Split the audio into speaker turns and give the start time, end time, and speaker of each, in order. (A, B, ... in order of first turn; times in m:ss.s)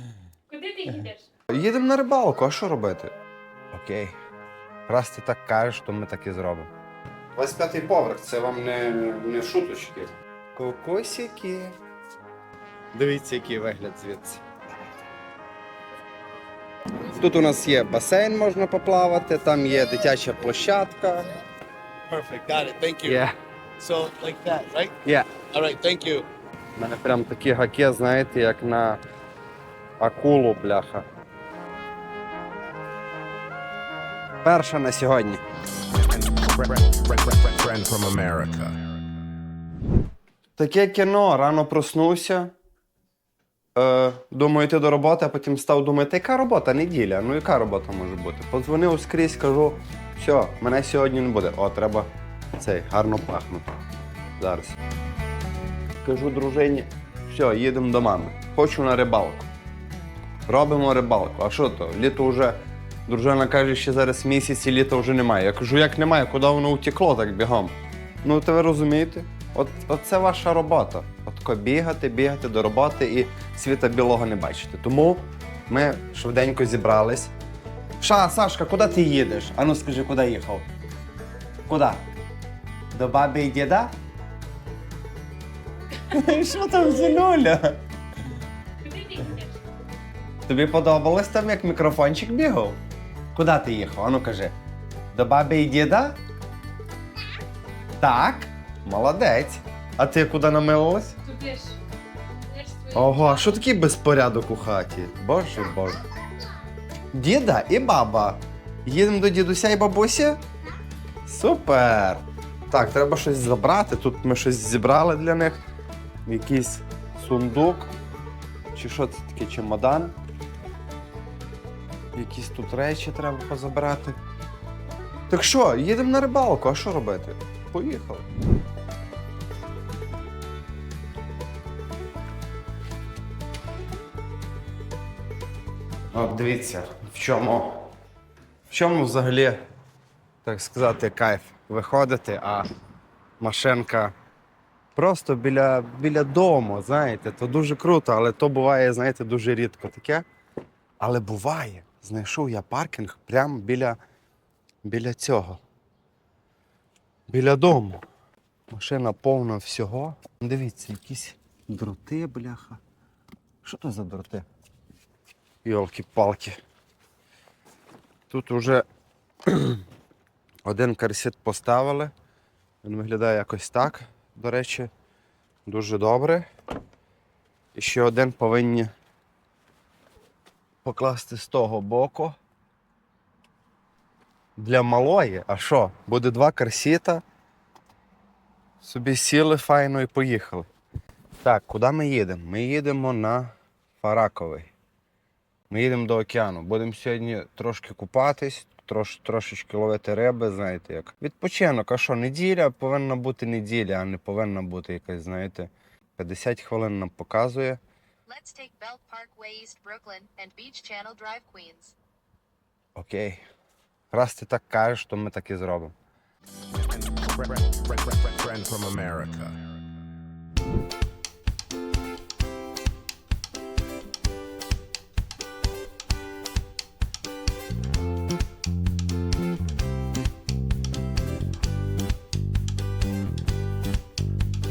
0:00.5-0:01.3 A
0:01.5-0:03.1 B
0:03.7-0:04.2 B
0:04.9-0:06.7 B
0:07.4-0:11.8 B
0:12.9-0:14.4 B
0:17.1-0:21.3 B
0:22.1-0:23.2 C
0:23.0-0:23.4 B
0:23.8-0:25.0 C
0:25.5-0:26.3 C
0:26.8-0:29.0 B
0:30.0-0:31.1 B
0:34.4-0:35.4 B
0:36.1-0:38.8 D
0:40.6-0:42.5 B
0:43.8-0:53.7 B
0:54.4-0:54.8 B
0:56.0-0:59.5 B
1:00.5-1:17.3 B
1:18.0-1:20.7 B
1:21.7-1:22.0 B
1:22.9-1:23.9 B
1:26.1-1:27.8 B
1:28.8-1:29.6 A
1:30.5-1:32.8 B
1:33.3-1:34.6 B
1:35.1-1:36.2 B
1:38.0-1:41.2 B
1:41.2-1:41.8 A
1:42.4-1:43.6 A
1:42.9-1:46.0 B
1:47.1-1:50.4 B
1:51.3-1:55.6 B
1:56.3-1:57.9 B
1:58.7-2:00.2 B
2:02.2-2:04.2 B
2:05.3-2:08.3 B
2:16.1-2:17.9 B
2:18.7-2:19.6 B
2:20.4-2:22.7 B
2:23.4-2:24.1 B
2:25.0-2:30.2 B
2:31.0-2:34.0 B
2:34.8-2:35.6 B
2:37.3-2:38.0 B
2:38.7-2:42.8 B
2:43.6-2:44.5 B
2:45.6-2:46.6 B
2:48.3-2:48.8 B
2:49.5-2:49.8 B
2:50.6-2:52.1 B
2:52.8-2:54.9 B
2:55.7-2:56.5 B
2:57.8-2:58.9 B
3:00.8-3:02.4 B
3:04.6-3:07.2 B
3:08.8-3:10.7 B
3:11.4-3:14.7 B
3:15.7-3:27.8 B
3:28.3-3:32.0 E
3:33.0-3:33.4 B
3:34.1-3:35.9 B
3:36.9-3:39.6 D